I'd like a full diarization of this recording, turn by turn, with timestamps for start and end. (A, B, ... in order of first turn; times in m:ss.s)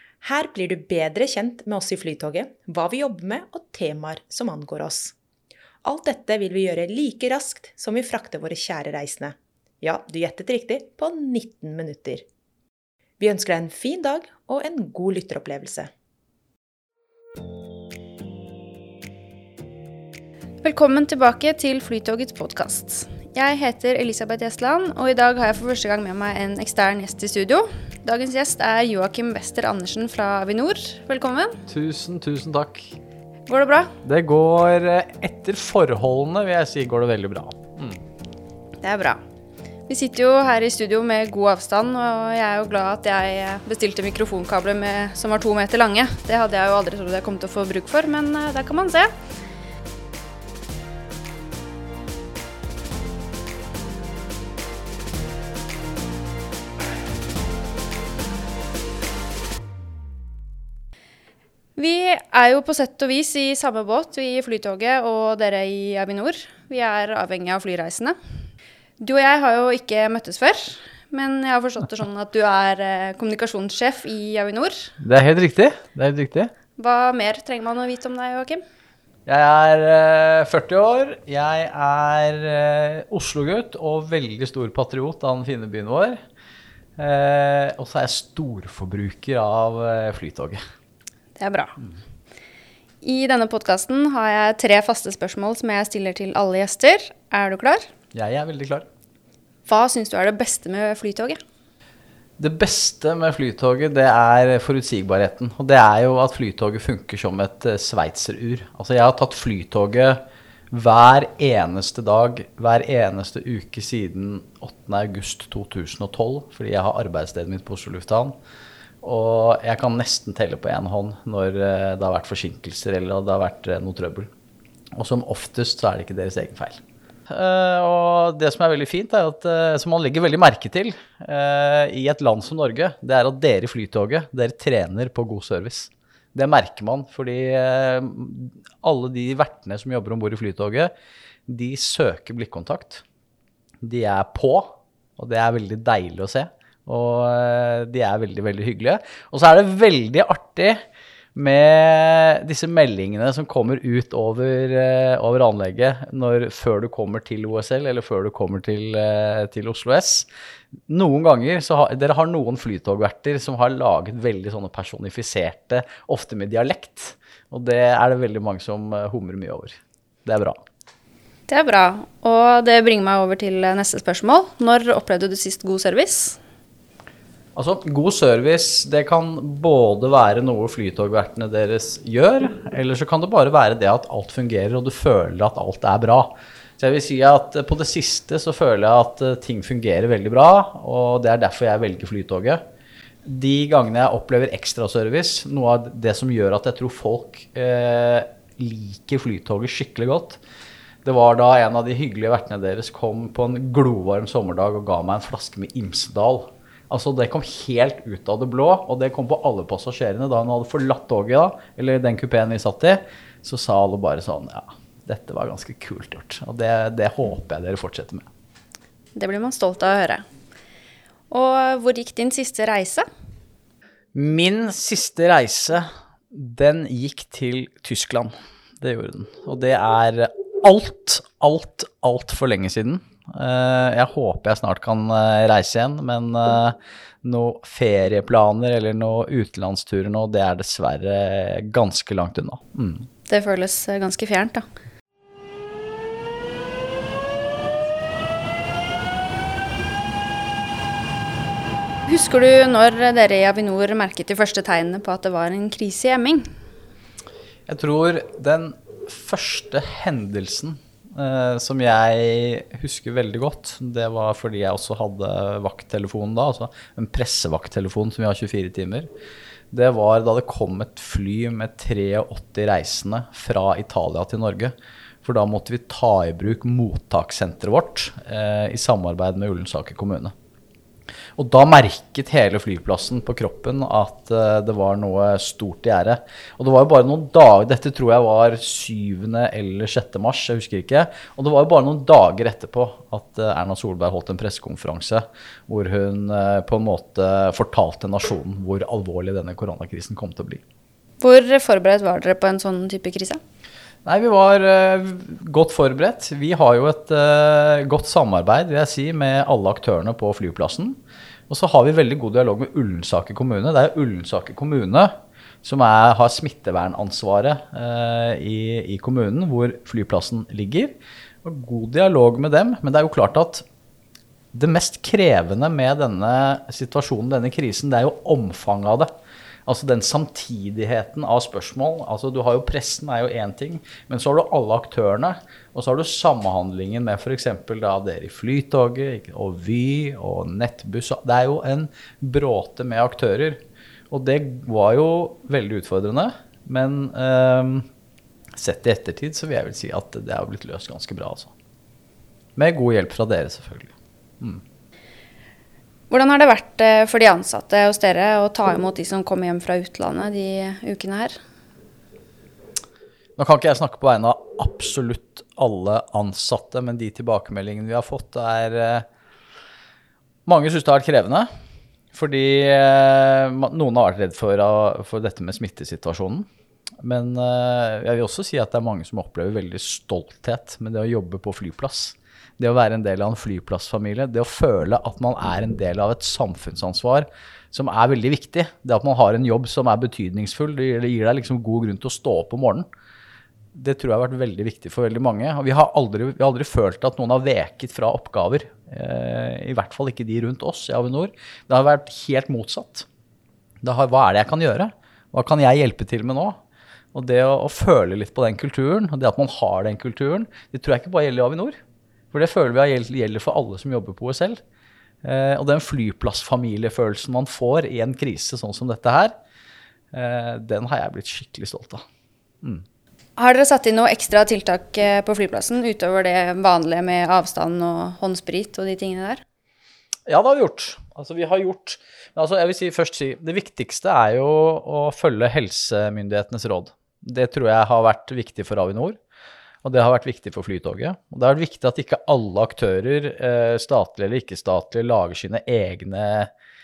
0:00.2-0:05.1 A
0:05.8-0:12.2 A
0:13.2-0:15.9 A
0:20.6-0:31.6 B
0:31.7-0:33.0 C
0:33.5-0:33.9 B
0:34.0-0:38.0 C
0:38.8-0:39.2 B
0:39.9-0:49.1 B
1:01.8-1:08.2 B
1:09.0-1:14.9 B
1:15.0-1:16.5 C
1:16.8-1:18.6 B
1:19.2-1:26.2 C
1:27.0-1:30.6 C
1:31.4-1:31.8 B
1:33.0-1:37.8 B
1:38.1-1:38.8 C
1:39.6-1:41.4 B
1:42.4-1:58.4 C
1:59.0-2:04.3 C
2:05.0-2:20.9 C
2:21.5-2:23.0 C
2:23.8-2:30.8 C
2:31.3-2:40.3 C
2:40.9-2:50.6 C
2:51.5-2:56.4 B
2:57.6-3:12.6 C
3:13.2-3:20.4 C
3:21.0-3:38.3 C
3:39.2-3:40.2 B
3:41.3-3:43.0 B
3:44.1-4:03.1 C
4:03.3-4:04.6 B
4:12.0-4:16.4 B
4:17.7-4:29.1 C
4:29.7-4:40.3 C
4:41.4-5:00.6 C
5:01.2-5:03.4 B
5:04.0-5:15.1 C
5:15.6-5:23.6 C
5:24.5-5:29.1 C
5:29.6-5:47.8 C
5:48.6-5:51.5 C
5:52.6-5:54.6 C
5:56.1-6:01.3 B
6:03.4-6:09.0 C
6:10.4-6:11.5 C
6:12.1-6:16.5 C
6:17.0-6:32.8 C
6:33.7-6:43.1 C
6:43.8-6:46.6 C
6:47.1-6:51.7 C
6:52.3-6:54.6 C
6:55.2-6:59.3 C
7:00.1-7:02.0 C
7:03.4-7:09.4 B
7:10.3-7:19.2 C
7:19.8-7:26.5 C